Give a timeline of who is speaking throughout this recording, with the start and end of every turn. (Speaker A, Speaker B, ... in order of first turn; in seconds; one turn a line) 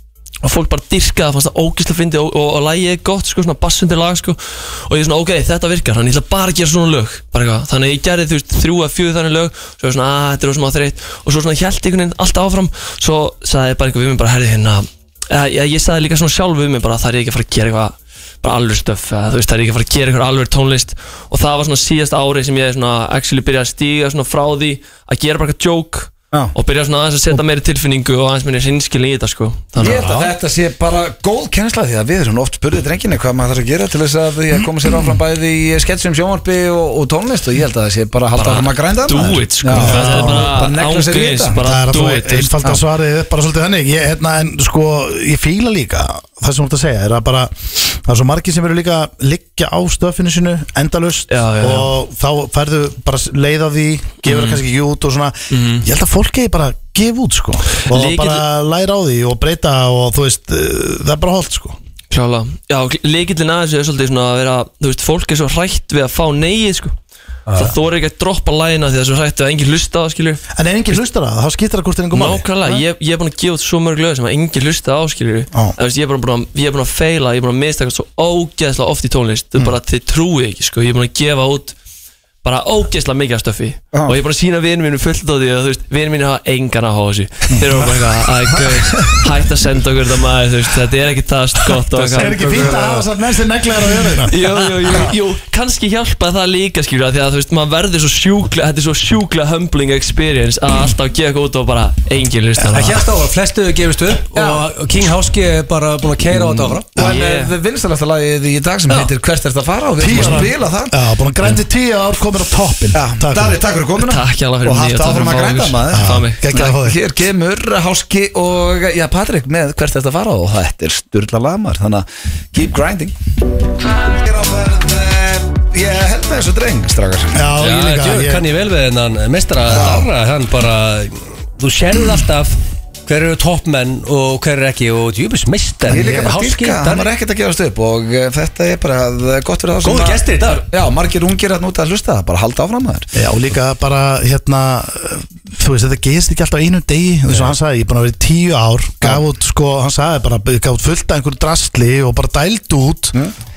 Speaker A: 0.4-30.1
Speaker B: 29.8-30.3
Speaker C: 29.8-41.6
Speaker A: 38.4-42.6
Speaker D: 39.7-40.5
Speaker D: 41.6-61.8
Speaker A: 51.3-52.0
Speaker A: 54.2-54.6
Speaker A: 55.5-55.9
Speaker A: 57.8-58.5
Speaker A: 62.1-67.0
Speaker B: 67.5-67.8
Speaker A: 67.5-70.4
Speaker D: 70.5-72.8
Speaker A: 72.1-81.8
Speaker A: 82.4-92.7
Speaker C: 83.9-84.2
Speaker D: 92.1-94.6
Speaker C: 92.3-92.9
Speaker B: 92.6-92.8
Speaker A: 94.2-103.0
Speaker C: 94.9-95.2
Speaker B: 102.7-107.0
Speaker C: 104.3-104.6
Speaker C: 106.5-111.0
Speaker A: 107.0-107.5
Speaker D: 110.0-113.6
Speaker C: 112.9-123.2
Speaker A: 114.0-116.5
Speaker D: 115.9-117.0
Speaker C: 124.0-127.4
Speaker D: 127.3-128.4
Speaker B: 127.6-137.1
Speaker C: 129.7-130.1
Speaker C: 135.9-143.1
Speaker B: 139.8-140.7
Speaker D: 143.1-153.1